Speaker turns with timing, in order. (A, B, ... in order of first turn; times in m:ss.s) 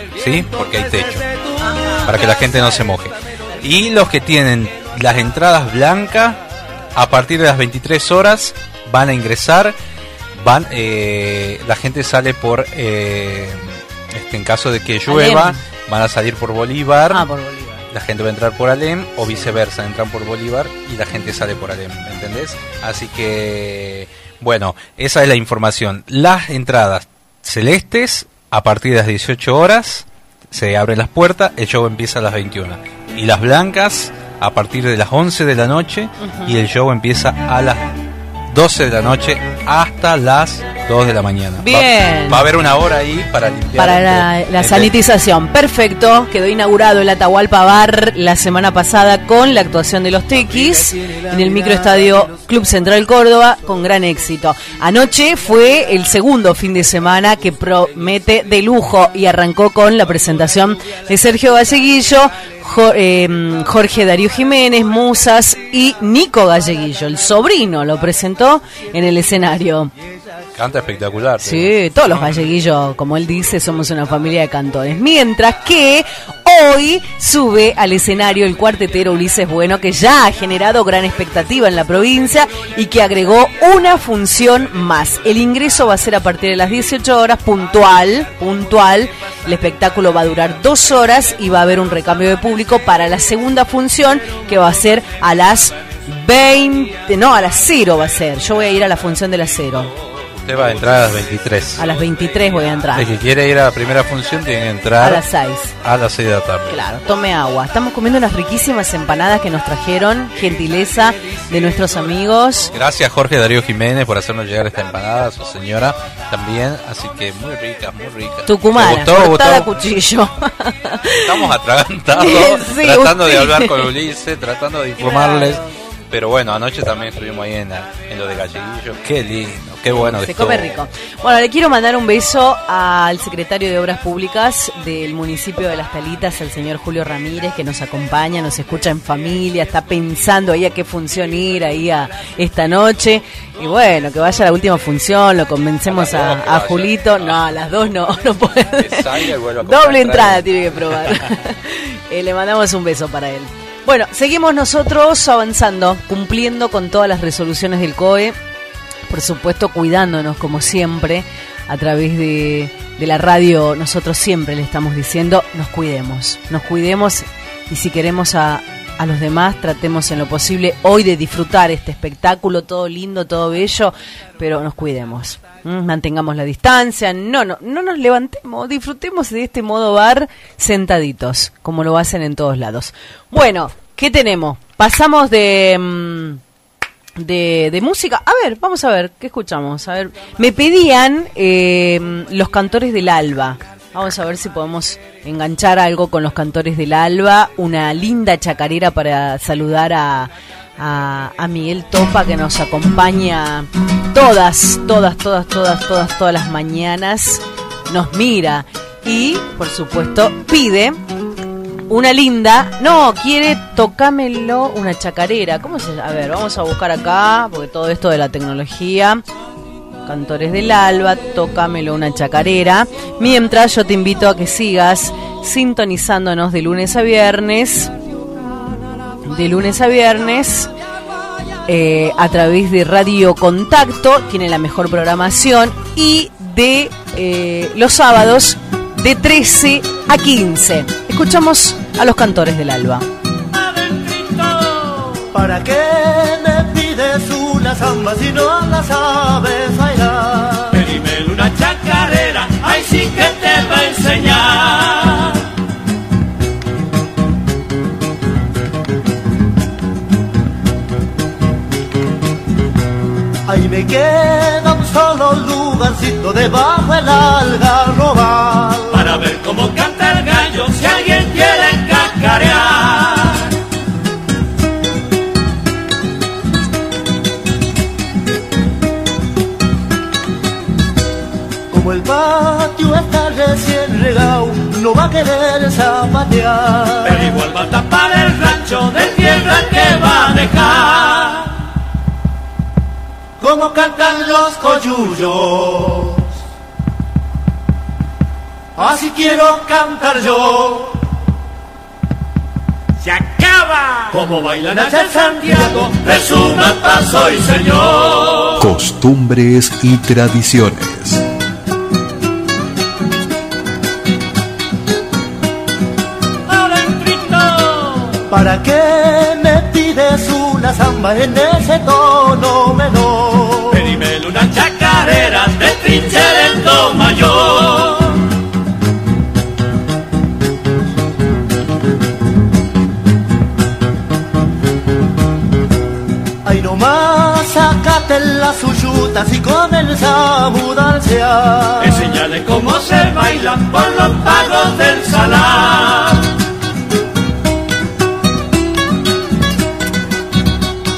0:00.2-0:01.2 A
0:00.2-0:03.1 B
0:01.6-0:02.3 C
0:02.0-0:06.4 A
0:06.9-0:09.7 A
0:10.4-0:17.2 A
0:15.1-0:15.6 C
0:17.1-0:17.8 C
0:17.9-0:37.9 A
0:19.3-0:19.5 C
0:36.2-0:36.6 C
0:38.5-0:44.9 A
0:41.6-0:42.5 C
0:43.8-1:09.9 C
1:10.5-1:11.7 A
1:11.4-1:39.9 C
1:40.4-1:41.9 A
1:41.8-1:43.1 C
1:42.9-1:45.2 A
1:45.0-1:45.7 C
1:45.8-1:46.8 A
1:46.7-1:52.7 C
1:52.7-1:59.7 A
1:58.5-2:01.5 C
2:01.2-2:10.8 A
2:02.1-2:03.9 C
2:05.0-2:05.6 C
2:09.9-2:38.3 C
2:25.9-2:27.4 A
2:28.8-2:30.5 A
2:39.1-3:06.4 C
3:07.2-3:31.0 C
3:31.9-3:39.2 C
3:40.0-3:47.9 C
3:49.2-3:50.7 C
3:51.7-4:03.0 C
4:04.1-4:04.4 D
4:05.3-4:10.8 B
4:10.7-4:15.3 D
4:23.5-4:29.0 B
4:28.9-4:33.4 D
4:41.7-4:47.3 B
4:47.0-4:51.5 D
4:53.4-4:56.2 B
4:58.8-5:01.0 B
5:03.0-5:08.5 D
5:04.6-5:07.1 B
5:08.6-5:11.2 E
5:16.6-5:17.9 D
5:18.3-5:23.9 B
5:23.7-5:28.1 D
5:36.4-5:42.0 B
5:41.8-5:46.3 D